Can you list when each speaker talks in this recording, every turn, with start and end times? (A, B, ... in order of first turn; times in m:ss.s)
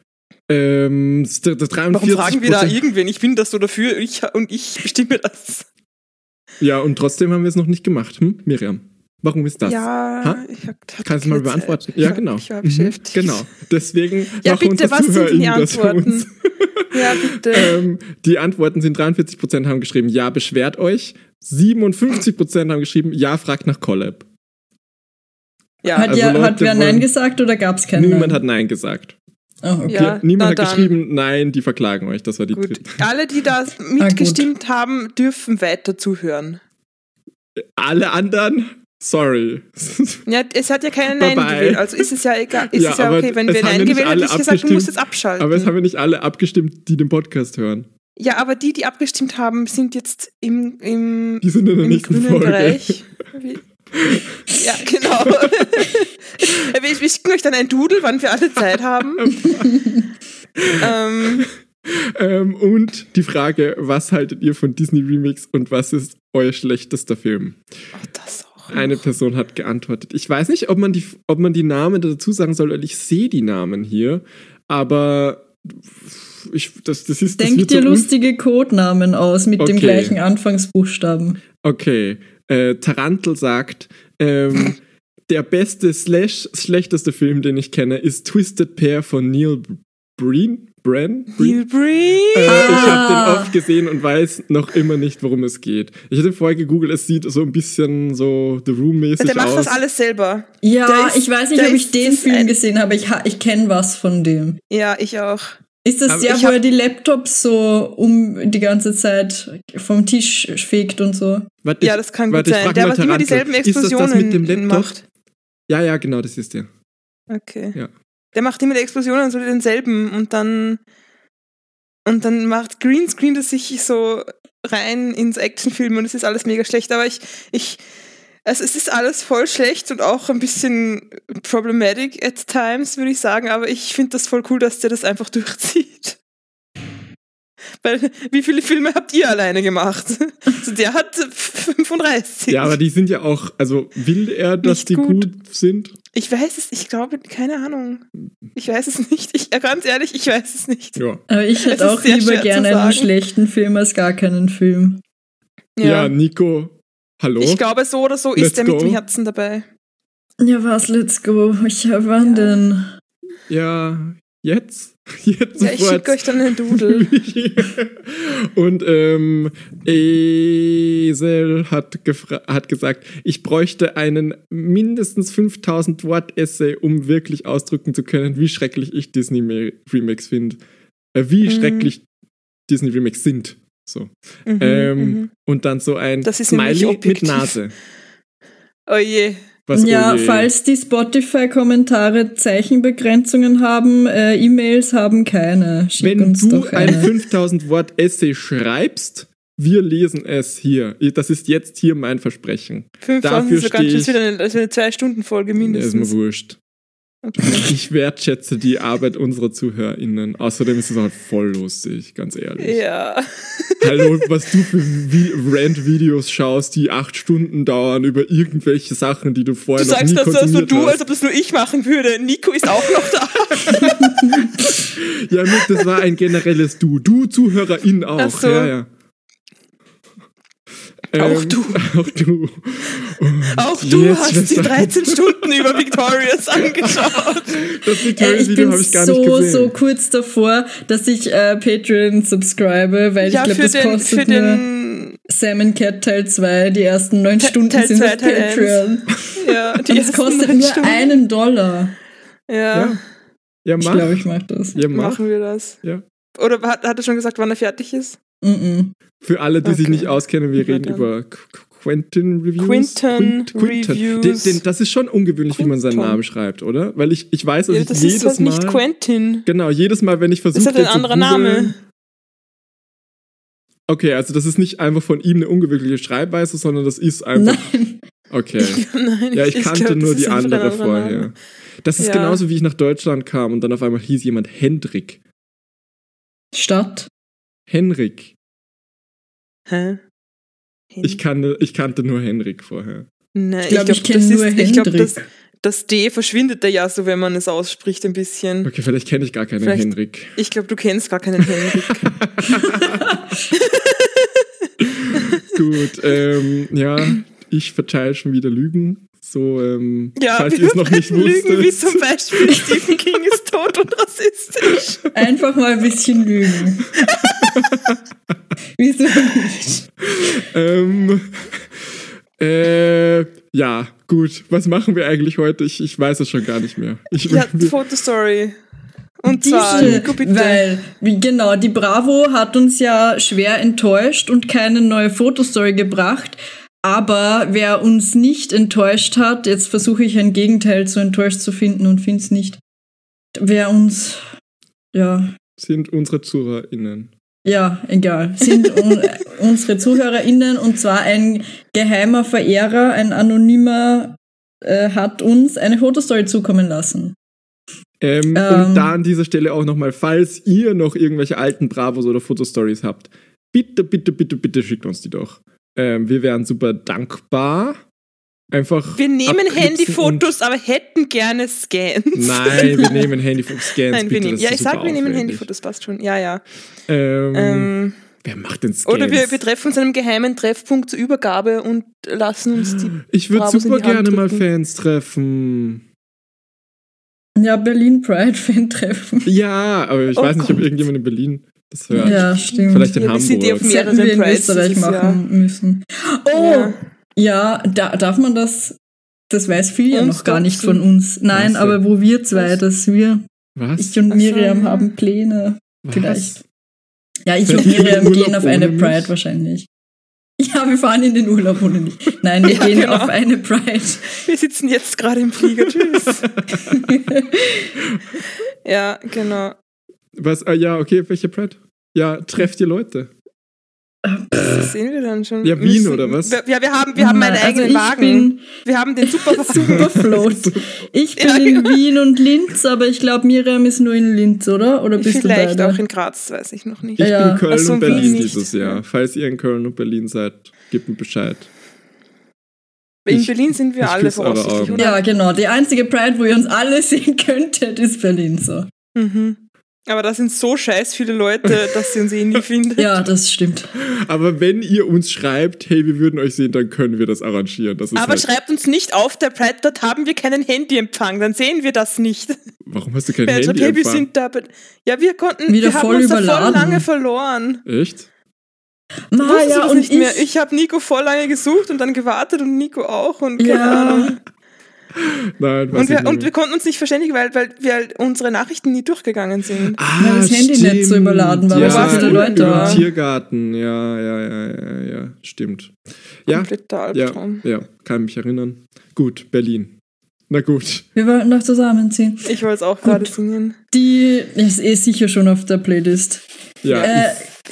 0:00.5-0:02.8 A
0:01.9-0:05.6 B
0:06.6-0:10.4 A
0:09.6-0:13.4 B
0:11.0-0:24.2 A
0:14.4-0:16.2 B
0:16.9-0:17.7 B
0:25.8-0:26.2 B
0:25.9-0:28.4 C
0:26.0-0:27.1 A
0:27.9-0:29.1 A
0:29.6-0:30.1 C
0:29.9-0:30.9 B
0:29.9-0:32.9 A
0:32.5-0:36.6 B
0:34.0-0:34.5 C
0:37.6-0:40.2 A
0:40.2-0:45.7 B
0:41.1-0:42.1 A
0:42.7-0:47.9 A
0:48.2-0:53.6 B
0:51.4-0:53.0 A
0:53.9-0:54.3 A
0:54.5-0:59.3 B
0:55.2-0:55.8 A
0:59.2-0:59.7 A
1:00.6-1:07.6 A
1:00.8-1:01.4 B
1:08.0-1:09.0 B
1:08.7-1:18.1 A
1:17.4-1:21.4 C
1:19.6-1:20.2 A
1:21.6-1:24.8 A
1:25.3-1:31.6 A
1:31.3-1:33.0 B
1:32.3-1:39.8 A
1:32.5-1:33.5 C
1:39.2-1:42.6 B
1:40.6-1:44.6 C
1:44.7-1:45.6 B
1:45.8-1:51.5 C
1:46.1-1:46.4 A
1:46.2-1:46.5 B
1:51.6-1:54.9 A
1:51.8-1:55.0 B
1:55.7-1:56.7 A
1:57.3-1:57.8 B
1:58.3-2:00.8 B
2:02.0-2:07.8 B
2:08.4-2:16.2 B
2:17.8-2:22.7 B
2:22.5-2:25.9 A
2:24.6-2:25.3 B
2:26.1-2:31.0 B
2:31.0-2:31.2 A
2:31.3-2:35.0 C
2:31.6-2:33.1 B
2:35.8-2:36.1 B
2:35.8-2:37.6 A
2:37.4-2:39.6 B
2:38.4-2:39.0 A
2:40.4-2:42.9 C
2:42.2-2:42.6 B
2:43.5-3:00.6 A
2:45.6-2:47.1 B
3:01.1-3:02.0 A
3:01.4-3:01.9 B
3:02.7-3:07.7 A
3:04.4-3:05.3 B
3:06.2-3:07.5 B
3:08.9-3:09.4 B
3:09.7-3:10.5 A
3:09.7-3:17.1 C
3:16.0-3:24.1 A
3:23.0-3:26.1 B
3:25.6-3:26.6 A
3:27.2-3:27.7 B
3:27.4-3:32.8 A
3:32.6-3:34.2 B
3:33.8-3:41.0 A
3:39.8-3:44.4 B
3:43.6-3:43.9 A
3:44.8-3:48.9 A
3:48.2-3:48.7 B
3:51.1-3:55.5 A
3:51.1-3:51.9 B
3:53.5-3:57.8 B
3:56.6-3:59.7 A
3:58.1-4:04.6 C
4:03.2-4:05.2 B
4:05.3-4:09.2 C
4:07.4-4:11.2 B
4:09.9-4:11.9 C
4:12.5-4:13.0 B
4:12.7-4:13.0 A
4:13.6-4:15.2 A
4:13.8-4:14.8 C
4:14.9-4:15.8 B
4:16.4-4:18.2 B
4:18.4-4:18.9 C
4:19.2-4:28.8 A
4:19.6-4:21.0 B
4:22.6-4:24.6 B
4:25.5-4:26.2 B
4:27.7-4:29.4 B
4:29.4-4:31.7 A
4:30.5-4:31.8 B
4:33.9-4:37.6 A
4:37.4-4:38.0 C
4:38.3-4:38.8 A
4:38.6-4:41.3 B
4:39.3-4:45.2 A
4:42.0-4:42.4 B
4:46.5-4:47.1 C
4:47.7-4:48.3 A
4:49.7-4:50.0 B
4:50.9-4:51.2 B
4:51.0-4:53.1 A
4:53.3-4:58.7 B
4:53.7-4:55.2 C
4:58.6-5:00.3 A
4:59.6-5:02.0 B
5:01.4-5:03.1 A
5:03.5-5:04.4 B
5:04.8-5:12.5 A
5:10.2-5:15.0 B
5:15.1-5:16.9 C
5:17.0-5:17.5 B
5:17.5-5:18.0 A
5:18.8-5:19.9 C
5:20.1-5:21.6 A
5:22.4-5:27.7 A
5:27.3-5:28.6 B
5:29.2-5:30.6 B
5:29.3-5:42.6 C
5:29.7-5:30.1 A
5:43.4-5:44.2 C
5:44.9-5:45.4 C
5:45.6-5:47.1 A
5:47.4-5:57.1 C
5:58.0-6:07.8 A
5:58.3-5:58.9 C
6:08.5-6:10.3 A
6:09.0-6:13.1 B
6:12.1-6:15.4 A
6:13.9-6:16.4 B
6:16.9-6:19.4 A
6:17.3-6:18.0 B
6:18.8-6:24.4 B
6:23.1-6:25.8 A
6:27.4-6:29.3 C
6:29.2-6:33.7 A
6:30.1-6:30.7 B
6:31.9-6:32.9 C
6:32.0-6:35.2 B
6:33.6-6:38.8 C
6:36.3-6:36.8 B
6:39.3-6:43.2 C
6:39.9-6:40.8 B
6:41.3-6:41.8 A
6:43.6-6:44.0 A
6:43.8-6:46.4 C
6:44.1-6:44.9 B
6:45.8-6:46.4 A
6:47.2-6:49.7 C
6:47.4-6:49.1 A
6:50.4-6:54.2 C
6:52.4-6:53.1 B
6:54.2-6:56.3 B
6:55.7-6:56.8 A
6:56.7-6:57.7 C
6:57.9-6:58.2 A
6:58.6-6:59.6 B
7:00.1-7:03.1 A
7:04.0-7:04.7 C
7:04.4-7:10.1 B
7:05.4-7:06.4 A
7:07.0-7:08.5 C
7:09.0-7:15.8 C
7:09.5-7:10.6 A
7:11.2-7:11.8 B
7:15.0-7:18.8 B
7:17.0-7:18.3 C
7:17.0-7:21.5 A
7:23.0-7:25.0 B
7:23.1-7:24.8 A
7:24.8-7:28.7 C
7:28.9-7:33.0 B
7:31.5-7:31.7 A
7:32.8-7:33.7 C
7:33.8-7:38.3 A
7:37.9-7:42.4 B
7:42.6-7:44.1 A
7:43.2-7:47.6 B
7:45.5-7:46.8 C
7:47.6-7:48.1 A
7:49.1-7:50.2 C
7:49.2-7:54.2 B
7:53.4-7:54.1 C
7:54.9-7:56.3 A
7:55.7-7:59.8 B
7:59.7-8:05.7 A
8:00.0-8:02.9 C
8:01.5-8:02.8 B
8:06.2-8:09.7 A
8:06.3-8:07.4 B
8:10.3-8:10.8 A
8:11.0-8:12.3 C
8:12.2-8:13.6 B
8:13.7-8:16.2 C
8:16.6-8:17.1 A
8:16.6-8:16.9 B
8:16.8-8:17.2 C